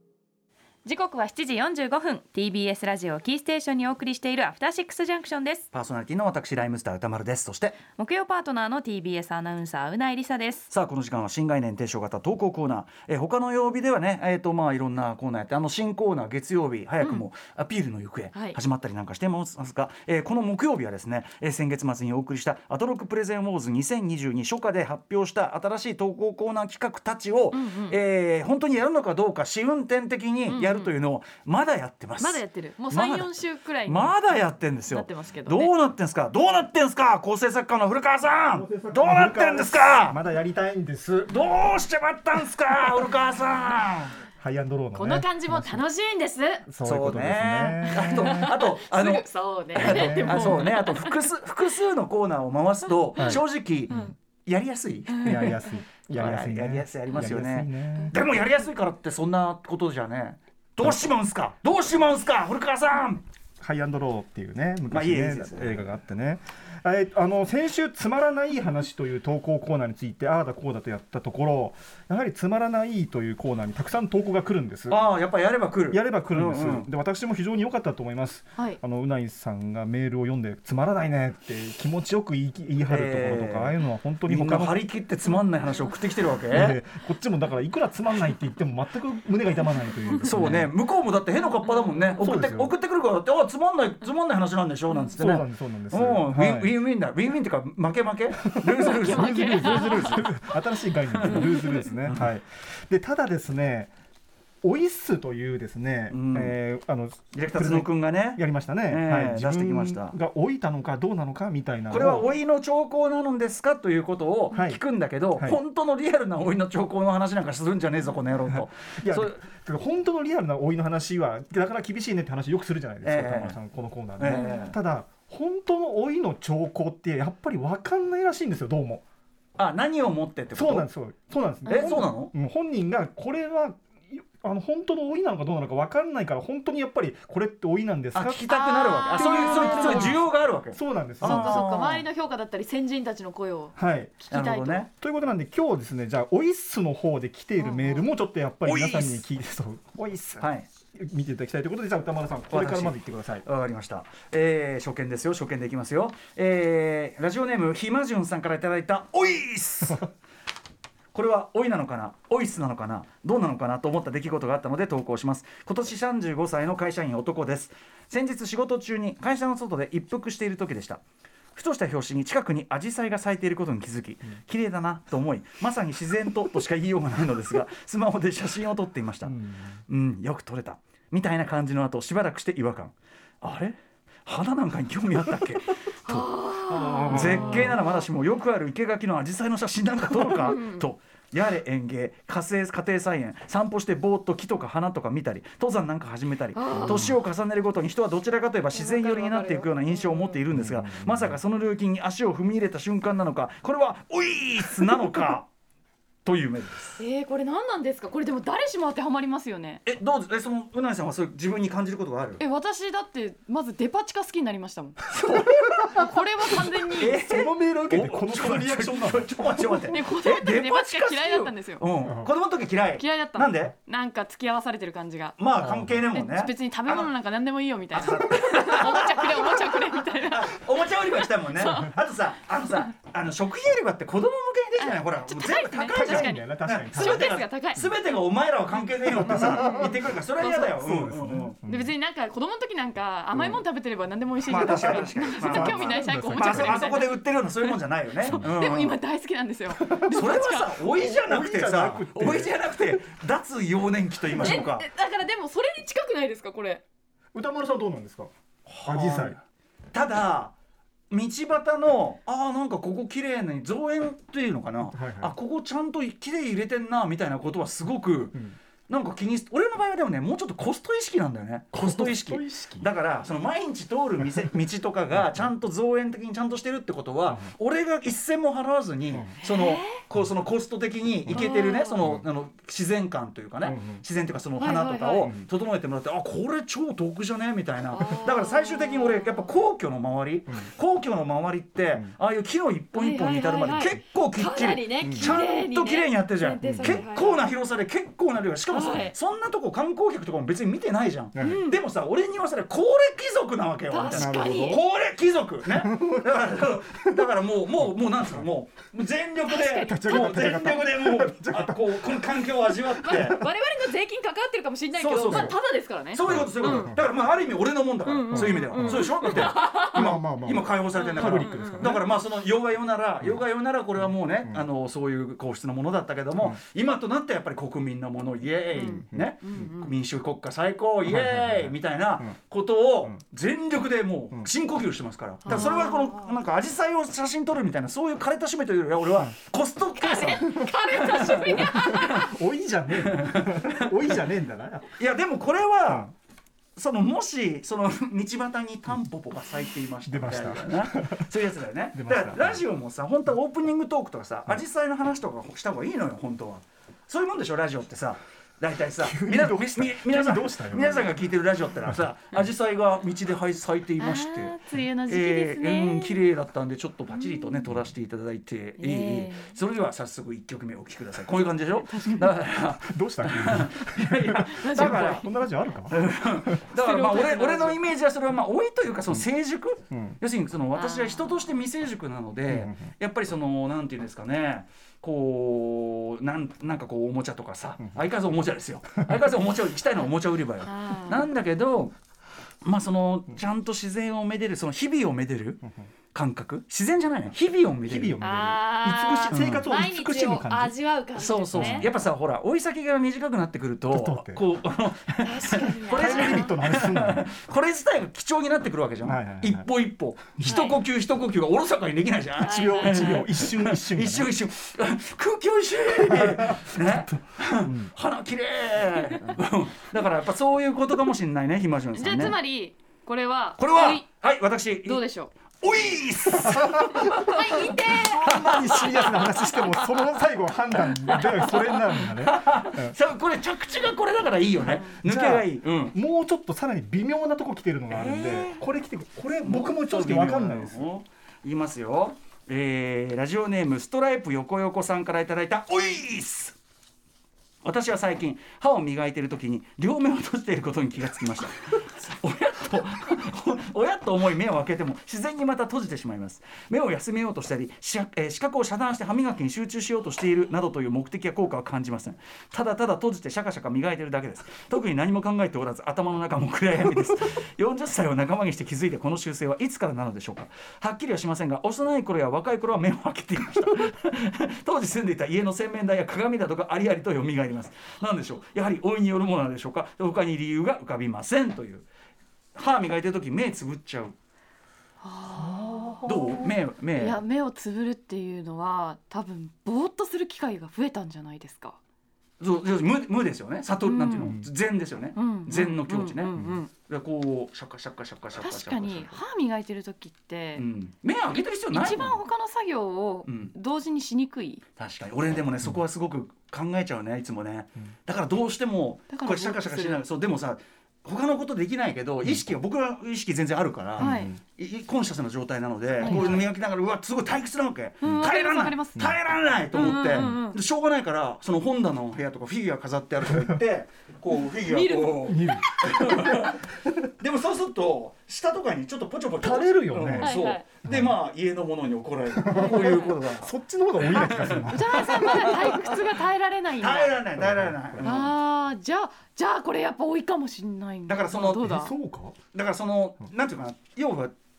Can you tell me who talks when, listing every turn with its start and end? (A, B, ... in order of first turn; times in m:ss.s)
0:00.8-0:05.6 A
0:05.7-0:07.8 B
0:07.8-0:10.7 A
0:10.7-0:33.4 B
0:17.0-0:17.3 A
0:18.3-0:18.6 A
0:27.5-0:28.0 A
0:30.5-0:30.9 A
0:32.2-0:34.3 A
0:33.9-0:40.2 B
0:34.9-0:35.7 A
0:38.5-0:41.4 C
0:41.3-0:44.2 B
0:44.4-0:45.8 C
0:44.9-0:46.7 A
0:46.7-0:48.5 C
0:46.8-0:55.6 B
0:47.7-0:51.2 A
0:49.8-0:50.7 C
0:53.2-0:54.1 C
0:55.1-0:55.6 A
0:55.2-0:58.2 C
0:56.1-1:03.2 B
1:00.8-1:01.1 C
1:03.6-1:15.0 C
1:04.9-1:05.8 B
1:14.9-1:16.9 B
1:15.9-1:24.8 C
1:22.8-1:26.8 B
1:26.5-1:30.7 C
1:30.3-1:40.6 B
1:32.2-1:32.7 C
1:35.2-1:36.7 C
1:38.4-1:43.9 C
1:39.0-1:40.1 A
1:41.1-1:42.3 B
1:44.6-1:52.3 C
1:46.1-1:46.6 B
1:47.3-1:50.2 B
1:51.9-1:59.4 B
1:54.5-1:54.8 C
1:55.3-1:55.6 C
1:58.5-2:09.0 C
2:03.0-2:03.6 B
2:04.2-2:04.8 B
2:04.2-2:04.7 A
2:09.6-2:10.9 B
2:10.6-2:18.4 C
2:11.7-2:12.0 A
2:11.7-2:12.3 B
2:18.1-2:22.0 B
2:18.5-2:20.2 A
2:19.1-2:22.0 C
2:21.2-2:24.9 A
2:23.8-2:24.2 C
2:24.3-2:24.9 B
2:25.0-2:33.4 C
2:27.6-2:28.1 A
2:28.6-2:29.2 B
2:30.4-2:30.7 B
2:32.5-2:40.1 B
2:41.1-2:51.0 B
2:51.6-2:59.4 B
2:59.2-2:59.7 C
2:59.9-3:06.3 B
3:06.0-3:08.0 A
3:06.7-3:07.8 C
3:07.1-3:25.5 B
3:10.4-3:10.9 A
3:16.6-3:17.1 A
3:16.7-3:17.2 C
3:18.7-3:20.4 A
3:20.5-3:21.4 C
3:26.2-3:27.0 B
3:27.0-3:29.8 A
3:29.8-3:32.4 B
3:32.4-3:37.2 A
3:35.1-3:36.0 B
3:36.9-3:43.8 B
3:37.2-3:39.8 C
3:39.9-3:41.8 A
3:42.0-3:42.3 C
3:43.0-3:45.4 A
3:45.4-3:47.1 B
3:45.6-3:46.0 C
3:46.1-3:51.9 A
3:47.9-4:01.6 B
3:54.8-3:57.9 A
3:55.9-3:57.3 C
3:58.9-4:01.9 C
3:59.6-4:00.8 A
4:01.6-4:10.8 A
4:03.3-4:03.6 C
4:04.5-4:09.0 B
4:04.5-4:06.9 C
4:09.7-4:10.1 C
4:10.1-4:14.8 B
4:10.9-4:12.6 C
4:14.3-4:14.6 C
4:14.4-4:16.8 A
4:17.3-4:18.3 C
4:18.7-4:19.4 B
4:18.8-4:19.4 C
4:19.9-4:20.5 B
4:21.1-5:13.4 B
4:24.9-4:25.3 C
4:31.7-4:32.9 C
4:35.2-4:35.5 C
4:37.3-4:37.5 C
4:39.1-4:39.4 C
4:39.4-4:40.0 A
4:41.3-4:42.3 C
4:41.3-4:42.0 A
4:43.6-4:44.0 C
4:44.6-4:45.3 A
4:45.2-4:45.5 C
4:47.9-4:49.5 A
4:53.0-4:57.5 A
4:55.0-4:55.4 C
4:56.6-4:57.0 C
4:58.7-4:59.2 A
5:01.3-5:01.6 C
5:01.4-5:01.8 A
5:03.9-5:04.8 A
5:04.1-5:04.8 C
5:05.7-5:06.3 C
5:08.2-5:08.5 C
5:09.4-5:10.6 A
5:09.9-5:13.5 C
5:13.0-5:16.9 A
5:14.9-5:15.6 B
5:15.3-5:15.5 C
5:16.1-5:42.1 B
5:16.2-5:17.1 C
5:18.0-5:20.1 A
5:18.3-5:22.0 C
5:21.0-5:21.9 A
5:24.0-5:24.7 C
5:28.7-5:29.7 C
5:28.8-5:29.9 A
5:31.0-5:32.4 C
5:35.5-5:35.8 C
5:35.5-5:36.4 A
5:40.0-5:42.3 A
5:41.3-5:44.9 C
5:42.9-5:44.2 B
5:45.0-5:46.1 B
5:45.8-5:46.1 C
5:46.8-6:04.6 B
5:50.0-5:51.3 C
5:51.9-5:52.6 C
5:59.0-6:01.1 C
6:04.0-6:06.3 A
6:05.1-6:15.2 B
6:07.1-6:07.7 A
6:08.8-6:09.6 A
6:11.8-6:12.3 A
6:12.9-6:16.6 C
6:14.6-6:15.3 A
6:15.9-6:31.9 B
6:16.8-6:17.8 A
6:19.9-6:20.2 C
6:20.7-6:21.5 A
6:22.5-6:22.9 C
6:30.6-6:31.3 A
6:32.6-6:35.6 B
6:36.1-6:38.2 B
6:37.8-6:40.8 C
6:38.2-6:41.9 A
6:39.3-6:39.7 B
6:41.2-7:02.4 B
6:41.5-6:42.1 C
6:43.9-6:44.4 C
6:45.2-6:46.5 A
6:45.9-6:47.3 C
6:49.0-6:49.6 C
6:50.4-6:50.8 A
6:52.4-6:53.1 A
6:52.4-6:54.3 C
6:56.1-6:57.9 C
7:01.9-7:04.1 A
7:03.6-7:05.0 B
7:04.8-7:05.3 A
7:05.6-7:10.1 B
7:07.0-7:08.3 A
7:07.0-7:13.0 C
7:10.8-7:16.0 B
7:14.6-7:20.9 C
7:17.9-7:18.6 B
7:19.4-7:26.6 B
7:27.6-8:01.9 B
8:02.6-8:04.2 B
8:05.0-8:11.8 A
8:05.4-8:06.1 C
8:06.0-8:07.2 B
8:12.4-8:19.2 B
8:13.9-8:14.4 A
8:14.2-8:14.5 C
8:15.2-8:16.7 A
8:18.4-8:20.6 A
8:20.6-8:22.2 B
8:21.7-8:24.6 A
8:23.3-8:23.5 B
8:24.8-8:55.9 B
8:29.1-8:30.0 A
8:34.0-8:34.3 A
8:34.0-8:34.4 C
8:36.0-8:36.4 A
8:36.0-8:36.5 C
8:38.0-8:39.1 A
8:39.7-8:40.4 C
8:39.7-8:40.6 A
8:44.6-8:45.5 A
8:45.3-8:46.4 C
8:49.4-8:51.1 C
8:50.2-8:50.7 A
8:52.3-8:55.8 C
8:52.6-8:53.1 A
8:54.2-8:57.2 A
8:56.8-8:58.3 B
8:57.4-8:58.2 C
8:58.0-9:01.9 A
9:01.1-9:01.7 B
9:01.6-9:02.4 C
9:02.5-9:04.3 B